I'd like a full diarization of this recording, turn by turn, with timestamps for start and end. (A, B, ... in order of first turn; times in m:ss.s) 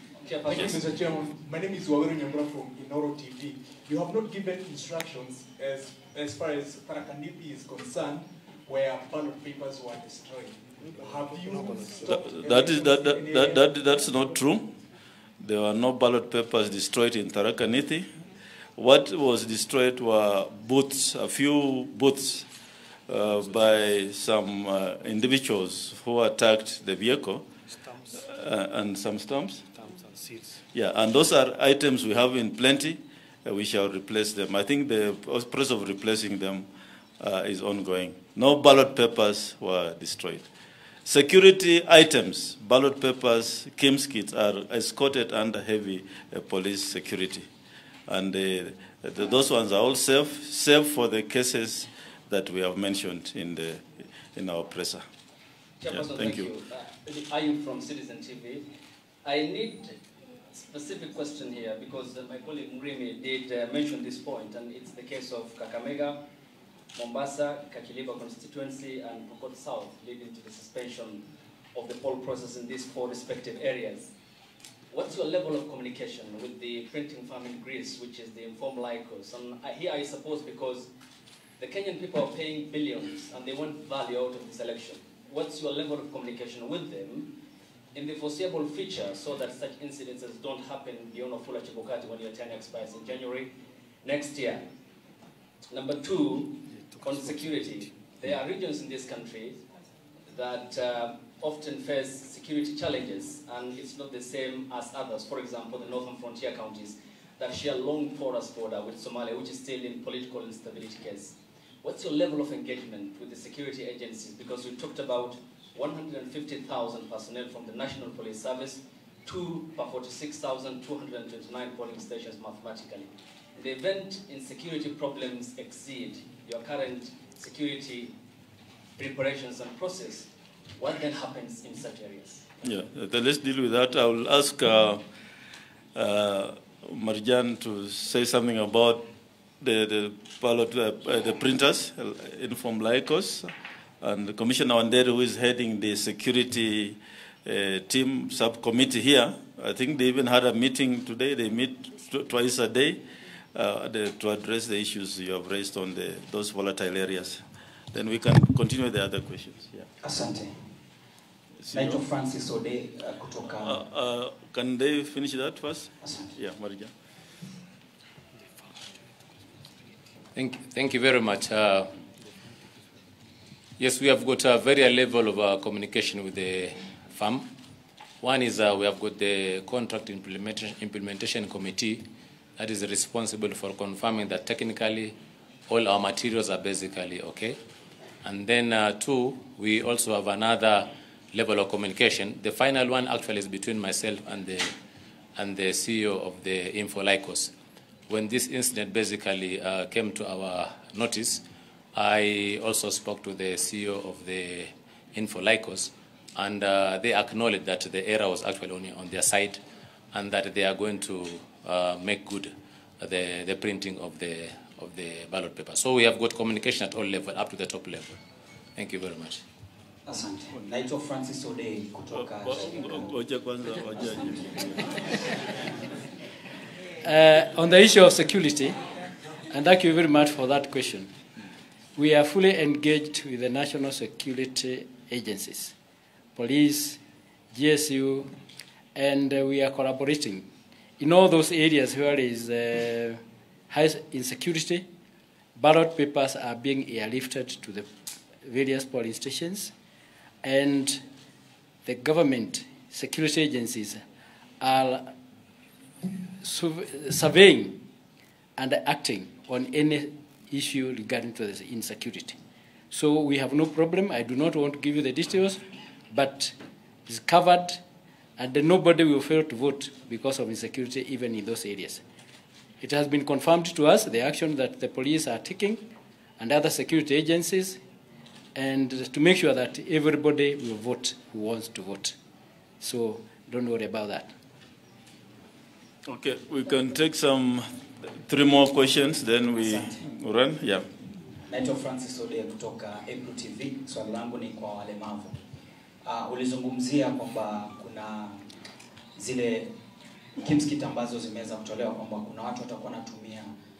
0:00.2-0:00.8 A
0:00.7-0:13.5 B
0:12.1-0:14.7 C
0:15.4-0:18.1 C
0:18.8-0:22.5 C
0:23.1-0:27.4 C
0:28.1-0:29.6 C
0:30.7-0:36.7 C
0:37.2-0:40.5 C
0:41.0-0:47.5 C
0:48.1-0:55.0 C
0:55.8-0:58.6 A
0:55.9-0:56.5 C
0:59.2-1:00.0 A
1:00.5-1:06.2 A
1:06.9-1:14.1 A
1:14.9-1:20.9 A
1:21.6-1:27.3 A
1:27.9-1:33.5 A
1:34.0-1:34.6 A
1:35.7-1:39.6 A
1:40.3-2:08.1 A
2:09.0-2:12.5 A
2:12.6-2:15.0 C
2:15.9-2:19.1 C
2:19.6-2:23.5 C
2:24.0-2:33.0 C
2:33.5-2:39.9 C
2:40.0-2:40.8 D
2:41.6-2:42.0 C
2:41.7-2:43.8 D
2:43.6-2:46.9 C
2:46.0-2:46.3 D
2:50.3-2:51.9 E
2:53.8-2:57.5 E
2:58.2-3:02.0 E
3:02.6-3:07.6 E
3:08.2-3:14.8 E
3:15.3-3:17.5 E
3:18.1-3:29.6 E
3:30.1-3:38.2 E
3:38.8-3:39.4 E
3:40.0-3:43.2 D
3:42.1-3:44.9 C
3:47.0-3:48.8 F
3:49.5-3:51.1 F
3:52.0-3:55.7 F
3:56.4-3:57.0 F
3:57.5-3:58.4 F
3:58.9-4:00.4 F
4:01.0-4:04.9 F
4:05.6-4:07.9 F
4:08.4-4:09.7 F
4:10.4-4:11.0 F
4:11.8-4:14.0 F
4:14.6-4:15.1 F
4:16.4-4:17.8 F
4:18.6-4:22.4 F
4:22.9-4:26.5 F
4:27.1-4:27.8 F
4:28.4-4:32.0 F
4:32.8-4:35.8 F
4:36.4-4:37.8 F
4:38.5-4:42.1 F
4:42.8-4:44.3 F
4:46.1-4:47.7 C
4:48.2-4:50.9 C
4:49.5-4:50.0 D
4:51.5-4:55.4 D
4:56.0-4:58.4 D
4:59.2-4:59.7 D
5:00.4-5:03.5 D